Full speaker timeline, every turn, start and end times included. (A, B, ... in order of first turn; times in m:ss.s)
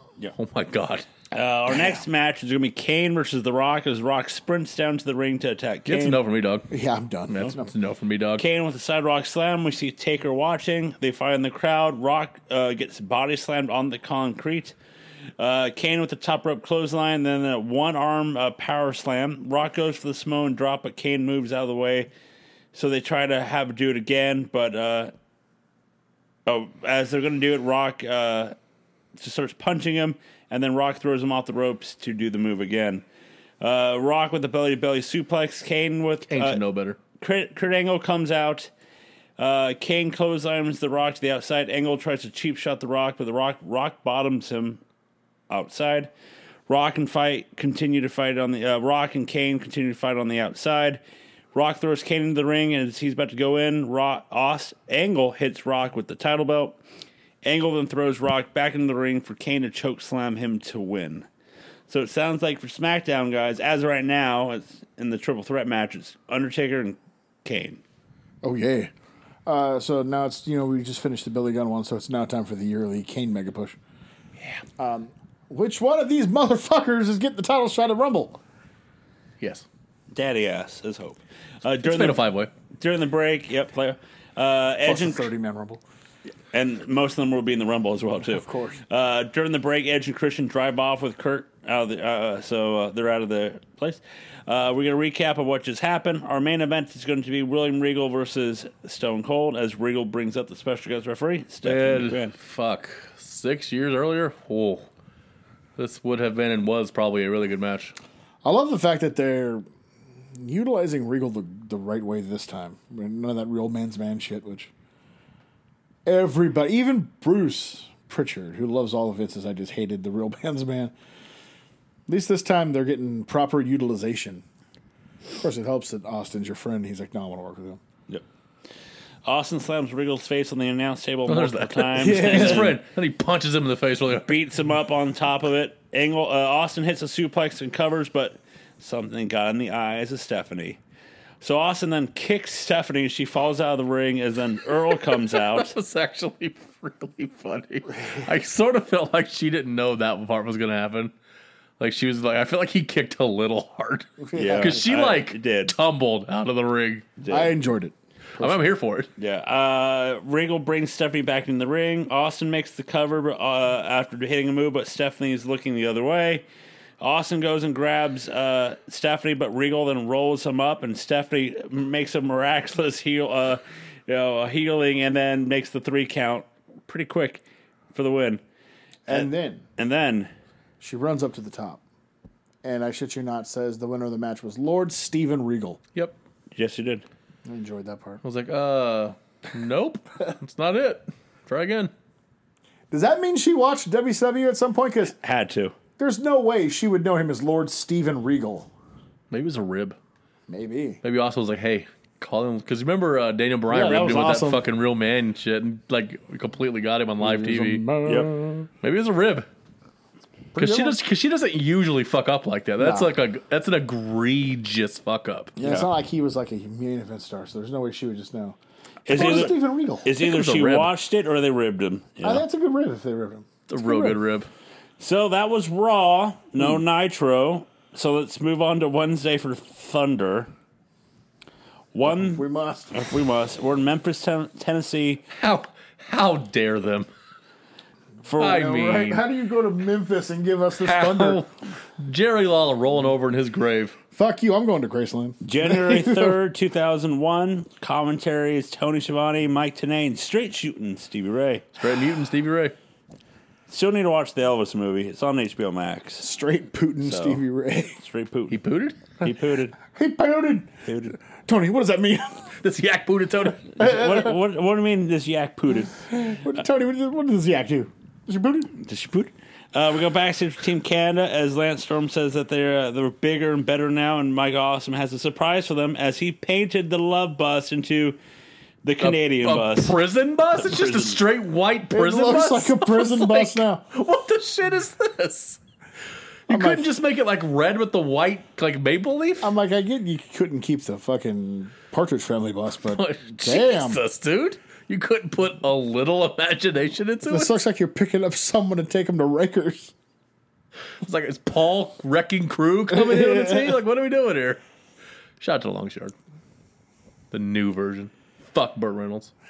0:00.3-0:01.0 A
0:01.3-0:06.2 B
0:05.9-0:06.7 A
0:06.7-0:07.7 C
0:07.3-0:08.4 A
0:08.4-0:14.7 B
0:15.4-0:22.1 B
0:22.7-0:25.1 B
0:26.4-0:28.5 B
0:29.2-0:33.0 B
0:33.6-0:36.6 B
0:36.3-0:37.0 A
0:37.2-0:38.7 B
0:39.4-0:44.8 B
0:45.5-0:46.1 B
0:46.7-0:51.0 B
0:51.5-0:56.8 B
0:57.4-1:01.3 B
1:01.9-1:07.8 B
1:08.4-1:08.9 C
1:09.4-1:13.8 C
1:14.8-1:18.4 C
1:19.4-1:19.6 A
1:20.1-1:22.2 B
1:21.8-1:22.5 A
1:22.8-1:25.3 B
1:24.8-1:25.8 C
1:26.5-1:42.3 B
1:28.3-1:28.8 C
1:41.6-1:44.9 A
1:45.8-1:47.9 A
1:48.4-1:49.6 C
1:50.4-1:54.7 C
1:56.0-2:00.9 C
2:02.1-2:04.4 C
2:05.4-2:07.8 C
2:09.2-2:12.8 B
2:11.3-2:14.4 A
2:12.0-2:12.8 C
2:14.2-2:20.8 B
2:21.4-2:25.7 B
2:24.9-2:31.1 A
2:31.8-2:37.1 A
2:34.2-2:34.9 C
2:34.3-2:35.7 B
2:37.2-2:37.6 B
2:37.3-2:38.6 C
2:38.4-2:39.1 A
2:39.2-2:46.4 B
2:47.0-2:58.4 B
2:59.1-2:59.6 C
2:59.1-3:00.3 B
3:00.8-3:01.8 C
3:02.6-3:05.8 C
3:06.5-3:07.0 B
3:07.4-3:08.2 C
3:08.2-3:11.9 A
3:12.9-3:15.1 C
3:15.1-3:15.8 B
3:16.0-3:18.7 C
3:19.3-3:20.0 A
3:20.5-3:21.0 C
3:21.0-3:27.8 A
3:23.7-3:24.6 C
3:27.2-3:28.7 C
3:28.0-3:28.3 B
3:28.8-3:29.5 A
3:30.5-3:31.0 C
3:30.6-3:35.5 A
3:32.8-3:33.1 C
3:35.6-3:38.6 C
3:35.6-3:35.9 B
3:39.0-3:42.4 B
3:39.1-3:40.1 C
3:39.2-3:39.5 A
3:40.1-3:40.9 A
3:42.2-3:44.2 C
3:43.7-3:44.5 A
3:45.0-3:50.5 B
3:51.9-3:55.2 B
3:52.1-3:53.0 C
3:55.3-3:57.1 A
3:58.2-3:58.7 B
3:58.4-3:59.2 A
3:58.4-4:01.4 C
4:00.8-4:04.0 A
4:04.1-4:06.4 C
4:05.4-4:11.7 B
4:11.8-4:12.7 A
4:13.7-4:16.2 B
4:16.2-4:18.0 C
4:17.0-4:17.4 B
4:18.0-4:18.6 B
4:18.5-4:19.2 A
4:19.2-4:19.8 B
4:19.9-4:22.5 C
4:20.8-4:21.2 B
4:22.6-4:23.7 A
4:23.8-4:26.0 B
4:23.8-4:24.4 C
4:26.0-4:28.7 C
4:28.7-4:38.2 B
4:38.8-4:40.0 B
4:39.0-4:45.6 A
4:40.6-4:41.2 B
4:41.9-4:43.8 C
4:46.5-4:49.5 A
4:46.5-4:46.9 C
4:49.4-4:54.0 C
4:52.9-4:57.6 A
4:57.2-4:59.9 C
5:01.0-5:04.6 A
5:02.9-5:03.8 C
5:05.4-5:06.1 A
5:07.3-5:09.3 A